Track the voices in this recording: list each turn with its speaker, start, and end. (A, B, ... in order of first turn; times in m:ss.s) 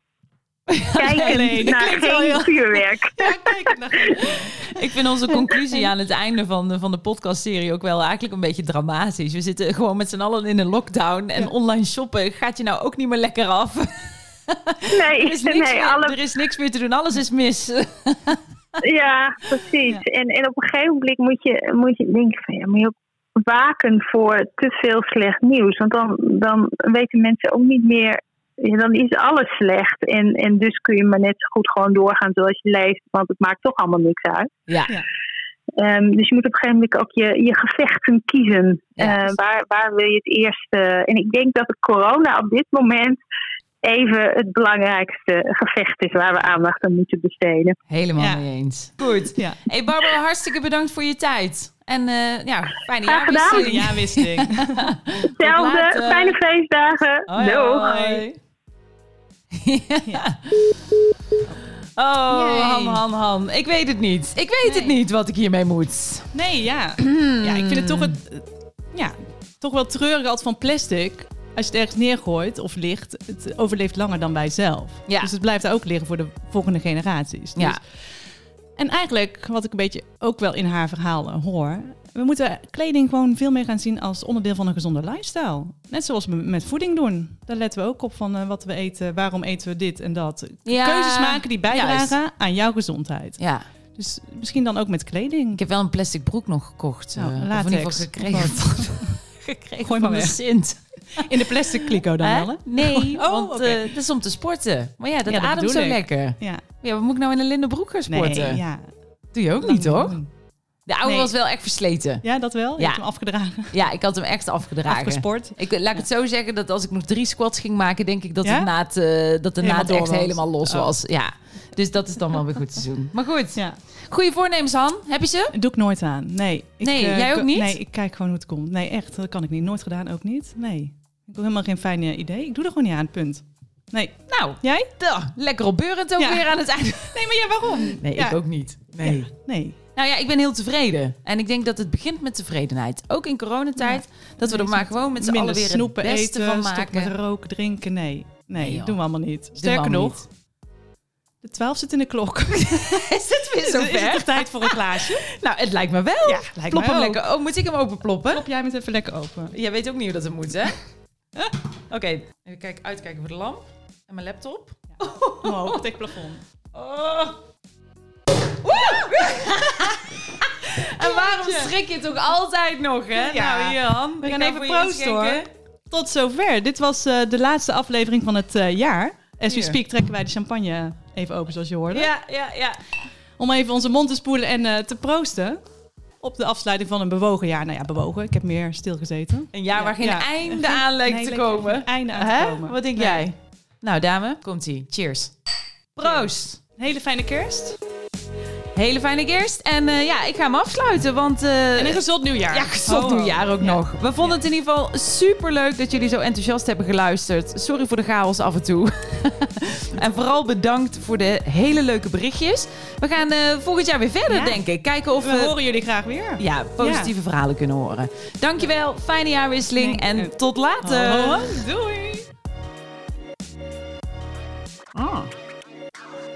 0:00.7-0:01.8 A
0:01.0-0:05.9 B
0:01.0-0:03.4 C
0:04.7-0:18.4 A
0:14.9-0:16.2 C
0:18.8-0:34.5 C
0:34.7-0:34.9 A
0:35.8-0:43.2 C
0:39.0-0:39.3 A
0:43.8-0:47.8 C
0:47.9-0:56.4 A
0:48.2-0:48.4 B
0:49.3-0:49.6 B
0:53.1-0:53.7 C
0:53.4-0:54.9 B
0:55.4-0:58.2 C
0:57.3-0:58.4 A
0:57.8-0:58.2 B
0:59.5-1:00.8 A
1:02.0-1:06.3 A
1:02.3-1:03.0 B
1:04.6-1:05.0 B
1:06.3-1:18.0 B
1:07.0-1:08.2 A
1:18.8-1:33.4 B
1:30.6-1:32.2 A
1:33.4-1:33.7 A
1:33.9-1:35.6 B
1:35.6-1:48.6 A
1:37.2-1:39.2 B
1:39.8-1:40.4 B
1:41.1-1:43.9 B
1:45.3-1:46.6 B
1:48.1-1:49.0 B
1:49.3-1:50.2 A
1:49.6-1:50.3 B
1:50.9-1:52.2 A
1:51.0-1:51.3 B
1:52.2-1:53.8 B
1:52.8-1:53.1 A
1:53.6-2:05.5 A
1:54.9-1:55.6 B
1:58.4-1:58.7 B
1:59.6-2:00.9 B
2:05.5-2:14.9 B
2:06.8-2:07.8 A
2:14.3-2:19.3 A
2:16.2-2:18.4 B
2:19.0-2:19.8 B
2:20.0-2:27.1 A
2:23.8-2:30.2 B
2:28.6-2:29.0 A
2:29.6-2:30.2 A
2:31.4-2:35.3 B
2:32.6-2:38.4 A
2:36.2-2:37.2 B
2:38.3-2:39.6 B
2:39.5-2:40.8 A
2:41.9-2:45.8 A
2:44.9-2:46.4 B
2:46.7-2:47.4 A
2:48.6-2:55.5 A
2:51.0-2:51.7 B
2:53.2-3:02.1 B
2:59.5-2:59.8 A
3:01.9-3:02.8 A
3:03.4-3:05.6 B
3:06.2-3:13.3 B
3:09.5-3:16.6 A
3:16.0-3:17.8 B
3:18.8-3:35.5 A
3:21.8-3:24.4 B
3:34.3-3:34.6 B
3:35.2-3:37.1 B
3:36.4-3:41.6 A
3:39.8-3:42.2 B
3:45.0-3:45.3 A